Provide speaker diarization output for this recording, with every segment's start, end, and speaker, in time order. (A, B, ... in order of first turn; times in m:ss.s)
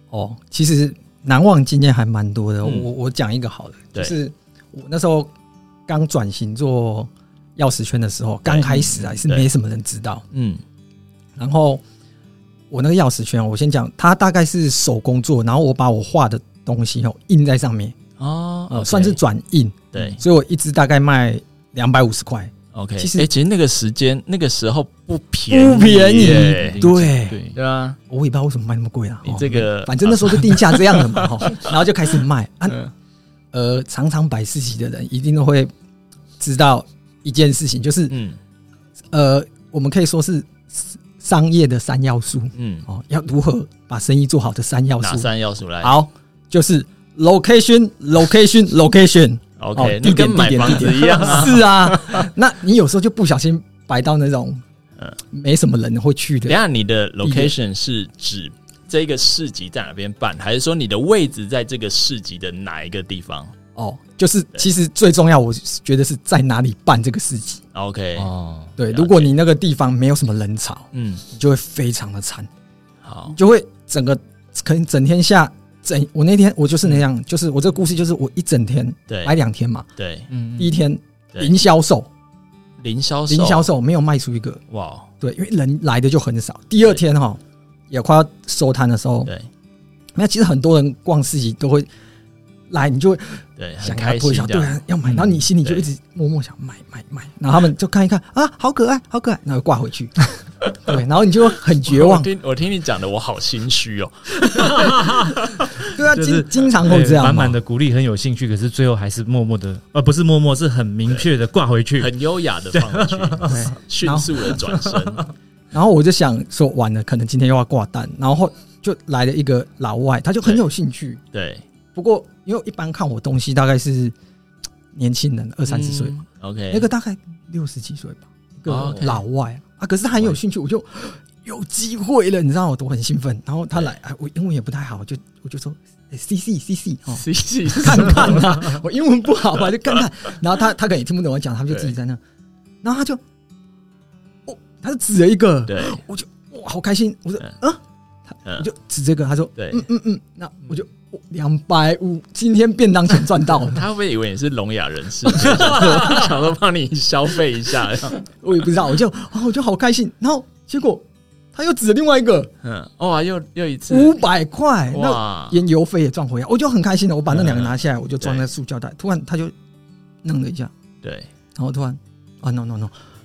0:00.1-0:05.3 A
0:05.9-0:10.2 A
0:08.5-0:09.5 B
0:10.3-0:10.6 B
0:11.4-0:11.8 A
0:12.7-0:18.0 A
0:18.2-0:19.2 B
0:18.7-0:23.3 A
0:19.9-0:20.2 B
0:22.7-0:26.8 B
0:25.5-0:27.4 A
0:26.1-0:27.6 C
0:27.6-0:28.0 B
0:28.1-0:32.8 A
0:29.2-0:31.7 B
0:33.5-0:35.7 A
0:36.4-0:38.1 A
0:38.1-0:38.4 B
0:39.1-0:45.3 A
0:42.6-0:42.9 B
0:45.0-0:46.0 B
0:45.8-0:54.6 A
0:49.6-0:52.2 B
0:55.3-0:56.6 A
0:56.5-1:03.5 B
0:57.2-0:57.5 A
1:03.8-1:07.6 A
1:07.7-1:08.3 B
1:08.2-1:08.7 C
1:08.8-1:12.5 A
1:08.9-1:09.3 B
1:10.9-1:11.2 B
1:13.0-1:13.4 B
1:13.3-1:19.9 A
1:19.1-1:19.3 B
1:20.0-1:20.3 B
1:20.3-1:20.8 C
1:20.6-1:22.1 A
1:22.8-1:23.7 B
1:23.3-1:24.6 A
1:24.7-1:25.1 B
1:25.2-1:29.3 A
1:30.2-1:31.9 A
1:32.7-1:42.3 A
1:33.6-1:34.8 B
1:35.0-1:35.4 C
1:35.6-1:35.9 B
1:41.9-1:45.4 B
1:44.5-1:52.1 C
1:45.9-1:47.6 A
1:52.0-1:55.3 B
1:52.7-1:53.7 C
1:53.4-1:54.5 A
1:54.7-1:55.0 C
1:55.7-2:01.2 A
2:01.3-2:01.6 B
2:01.9-2:04.1 A
2:04.9-2:06.2 A
2:05.7-2:06.9 B
2:06.7-2:22.2 A
2:08.7-2:09.2 B
2:17.1-2:18.6 B
2:22.8-2:23.2 A
2:24.5-2:27.8 A
2:25.7-2:26.0 B
2:28.3-2:33.8 A
2:29.6-2:29.8 B
2:33.7-2:38.2 B
2:35.5-2:36.3 C
2:38.2-2:42.5 A
2:42.6-2:44.1 B
2:43.9-2:49.5 A
2:44.9-2:45.6 B
2:47.3-2:48.4 B
2:50.2-2:50.7 A
2:51.0-2:51.3 B
2:51.6-2:53.0 A